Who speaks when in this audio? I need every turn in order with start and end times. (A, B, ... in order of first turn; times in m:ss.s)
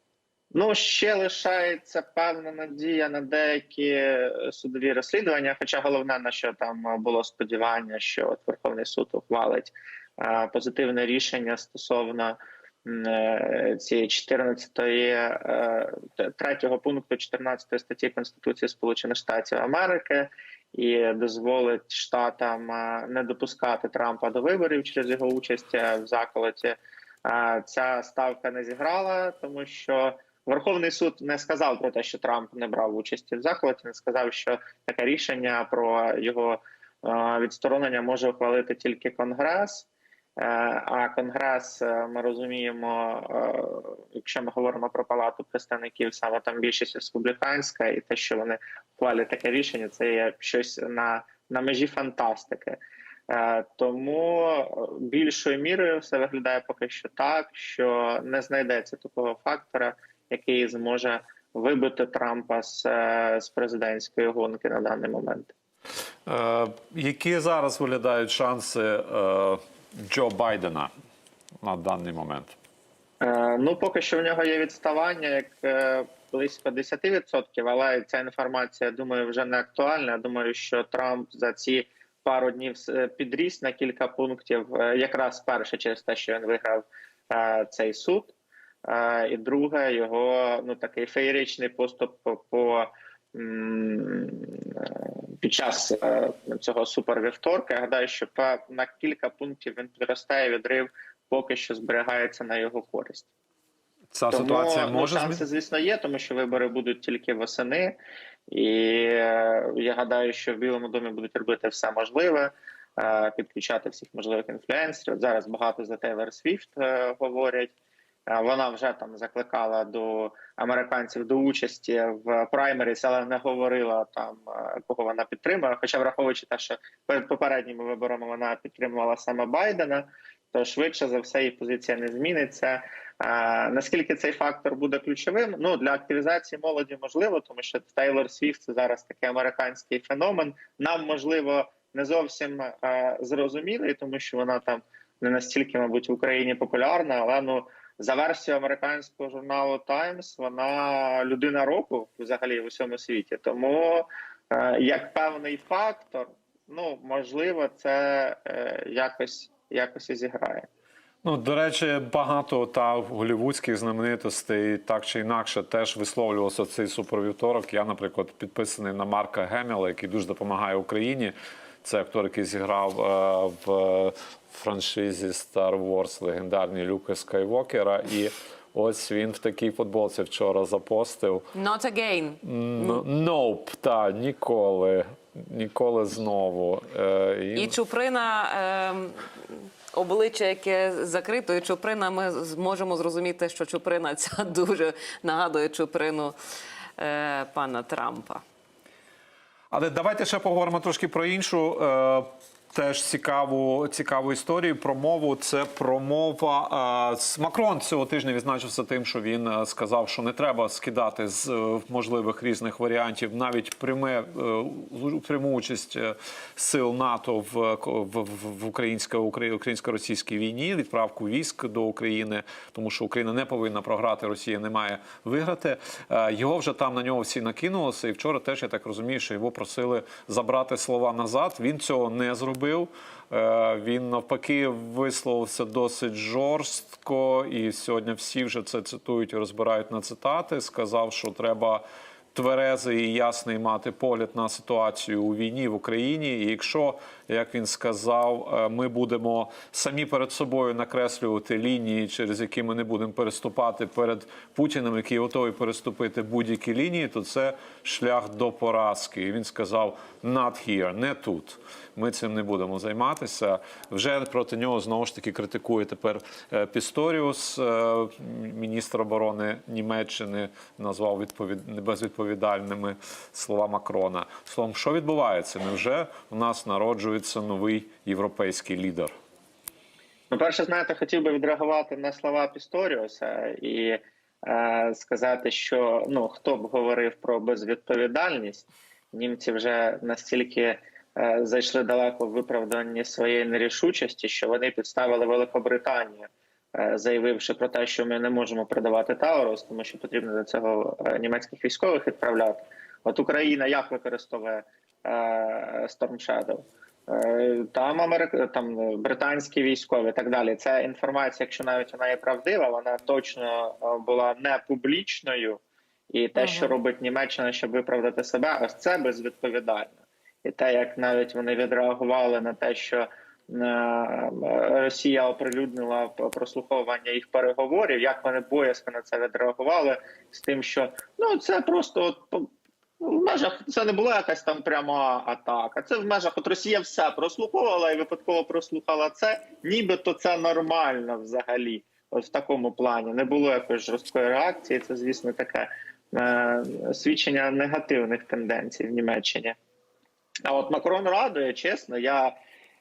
0:00.5-0:52.8 A
0:53.3-1:05.5 A
1:06.2-1:10.9 B
1:11.6-1:12.6 B
1:13.2-1:28.3 A
1:28.8-1:43.3 A
1:44.1-1:45.4 B
1:44.3-1:48.0 A
1:48.5-1:57.7 A
1:58.3-2:40.7 A
2:41.2-3:01.4 B
3:01.5-3:03.0 C
3:02.4-3:07.8 B
3:07.5-3:16.3 C
3:17.0-3:18.4 C
3:19.7-4:39.1 B
4:40.3-5:49.6 A
5:16.4-5:16.7 C
5:50.5-5:52.3 A